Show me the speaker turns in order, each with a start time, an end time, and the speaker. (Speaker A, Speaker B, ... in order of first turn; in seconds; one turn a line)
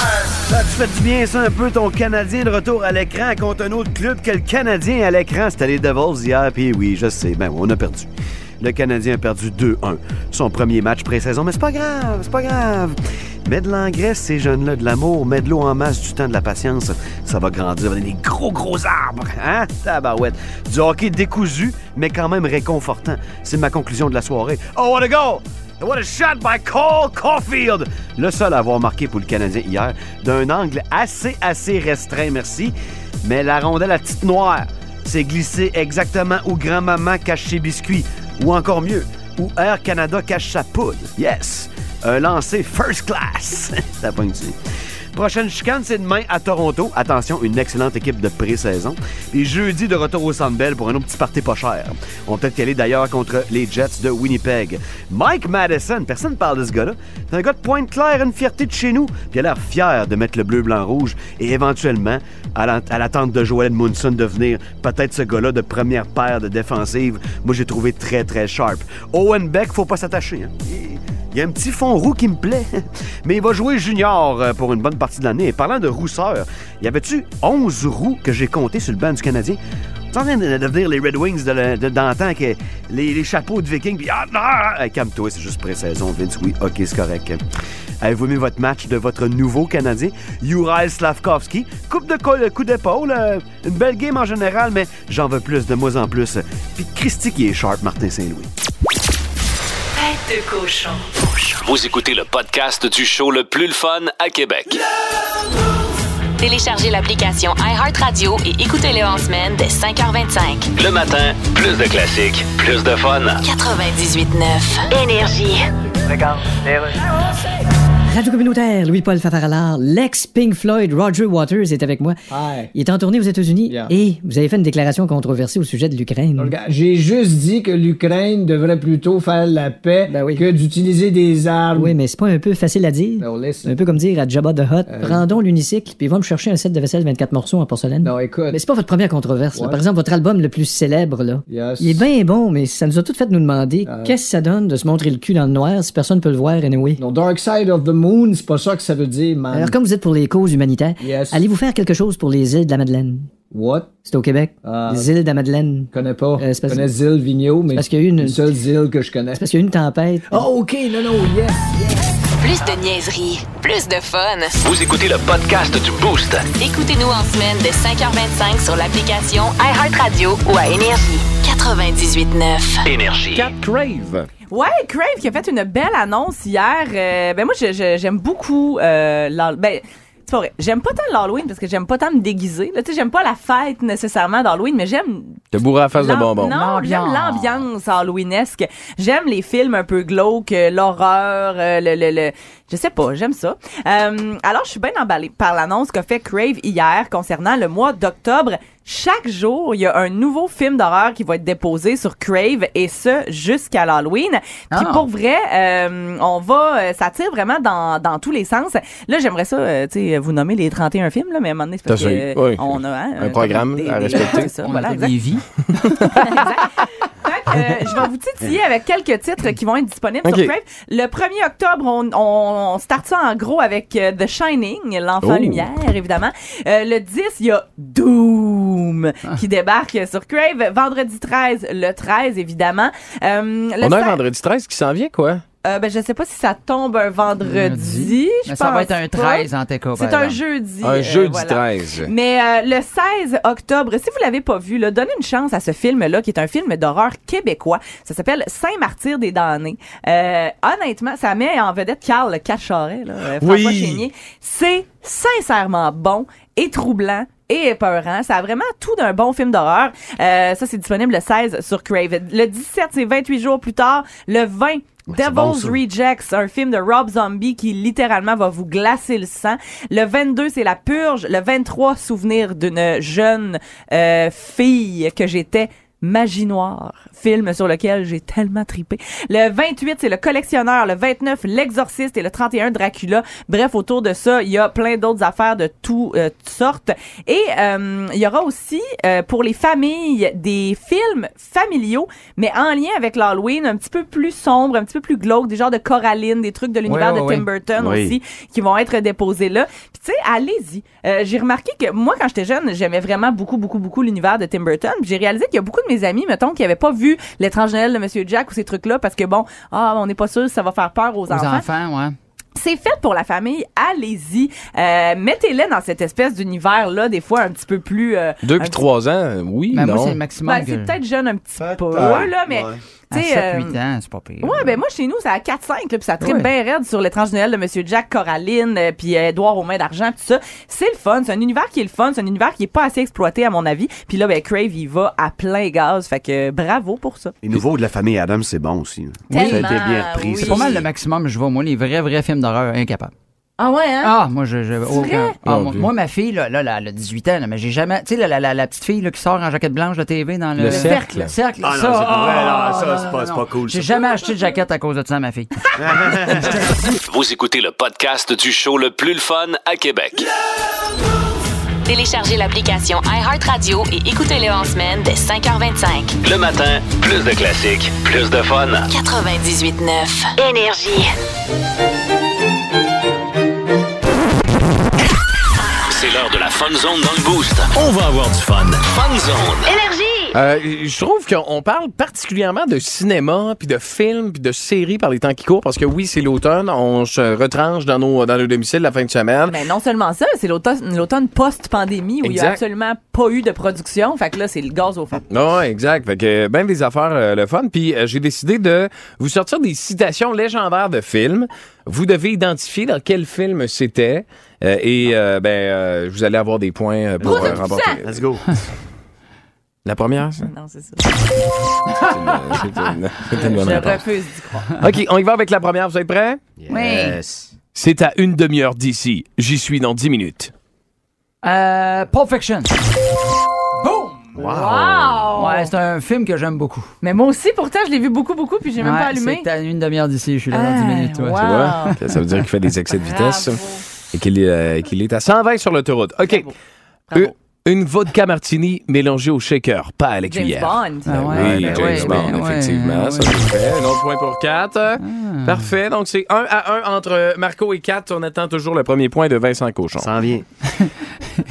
Speaker A: 0.5-44.6
Speaker A: 45.1-79.6
Speaker A: 80.1-87.4
Speaker A: 88.0-98.5
Speaker B: 100.0-101.5
Speaker C: 101.6-104.8
Speaker B: 106.4-110.7
Speaker C: 110.8-113.4
Speaker B: 113.4-115.7
Speaker D: 116.1-117.0
Speaker E: 118.1-122.2
Speaker D: 122.3-122.7
Speaker E: 122.7-126.5
Speaker D: 123.7-123.9
Speaker D: 126.4-132.0
Speaker E: 130.1-130.5
Speaker E: 131.8-147.0
Speaker D: 133.2-133.8
Speaker D: 134.9-135.3
Speaker D: 138.0-138.6
Speaker D: 139.5-139.8
Speaker D: 141.5-142.1
Speaker D: 143.9-144.2
Speaker D: 147.0-149.8
Speaker E: 149.5-153.3
Speaker D: 151.0-151.4
Speaker D: 153.5-154.0
Speaker E: 154.0-156.9
Speaker D: 154.6-155.1
Speaker D: 155.9-159.4
Speaker E: 157.7-158.5
Speaker E: 159.3-160.5
Speaker D: 160.3-161.6
Speaker B: 162.4-164.6
Speaker C: 164.6-166.5
Speaker B: 166.6-172.8
Speaker C: 172.9-173.5
Speaker F: 173.3-174.3
Speaker G: 174.5-185.4
Speaker F: 185.5-186.6
Speaker G: 185.9-215.2
Speaker H: 186.4-187.7
Speaker H: 204.7-205.1
Speaker F: 211.9-214.5
Speaker H: 214.1-216.3
Speaker F: 216.0-216.3
Speaker G: 216.2-234.2
Speaker F: 220.2-220.5
Speaker F: 225.2-225.7
Speaker F: 233.8-235.4
Speaker G: 235.6-311.7
Speaker H: 237.4-240.4
Speaker F: 240.8-242.1
Speaker F: 253.4-254.1
Speaker A: 265.1-265.8
Speaker H: 296.9-297.5
Speaker A: 297.8-298.2
Speaker H: 311.3-312.2
Speaker G: 312.6-318.8
Speaker F: 318.4-320.2
Speaker H: 319.7-321.0
Speaker G: 320.4-323.8
Speaker A: 321.6-322.8
Speaker H: 323.1-324.8
Speaker G: 324.4-337.4
Speaker H: 326.2-326.5
Speaker A: 337.4-340.8
Speaker H: 339.3-339.8
Speaker G: 339.3-340.9
Speaker H: 340.4-343.1
Speaker G: 343.6-344.1
Speaker H: 344.0-355.7
Speaker G: 344.9-345.4
Speaker F: 345.5-345.9
Speaker F: 350.6-351.3
Speaker G: 350.7-351.0
Speaker A: 351.6-354.0
Speaker A: 355.8-356.6
Speaker H: 356.3-356.8
Speaker C: 357.0-360.3
Speaker B: 361.9-366.1
Speaker C: 366.2-368.9
Speaker B: 368.9-371.1
Speaker C: 375.9-379.7
Speaker B: 379.6-380.4
Speaker F: 380.3-389.6
Speaker G: 389.5-395.2
Speaker F: 392.2-392.6
Speaker F: 395.3-408.2
Speaker G: 407.2-408.0
Speaker A: 407.2-408.6
Speaker F: 409.9-410.5
Speaker G: 410.4-411.1
Speaker H: 411.9-412.7
Speaker F: 411.9-414.1
Speaker H: 413.3-414.0
Speaker G: 413.3-414.8
Speaker F: 414.8-416.4
Speaker A: 416.6-417.4
Speaker H: 416.7-417.4
Speaker F: 417.7-420.5
Speaker H: 421.4-422.7
Speaker H: 423.8-424.6
Speaker A: 424.4-425.3
Speaker G: 424.5-425.7
Speaker H: 425.3-426.9
Speaker G: 427.0-429.5
Speaker H: 428.8-431.9
Speaker G: 430.5-432.0
Speaker F: 431.4-436.5
Speaker G: 432.9-433.9
Speaker G: 436.2-436.5
Speaker F: 437.1-450.1
Speaker G: 440.3-441.9
Speaker H: 441.1-443.4
Speaker A: 441.4-442.3
Speaker H: 445.0-445.7
Speaker A: 449.9-450.4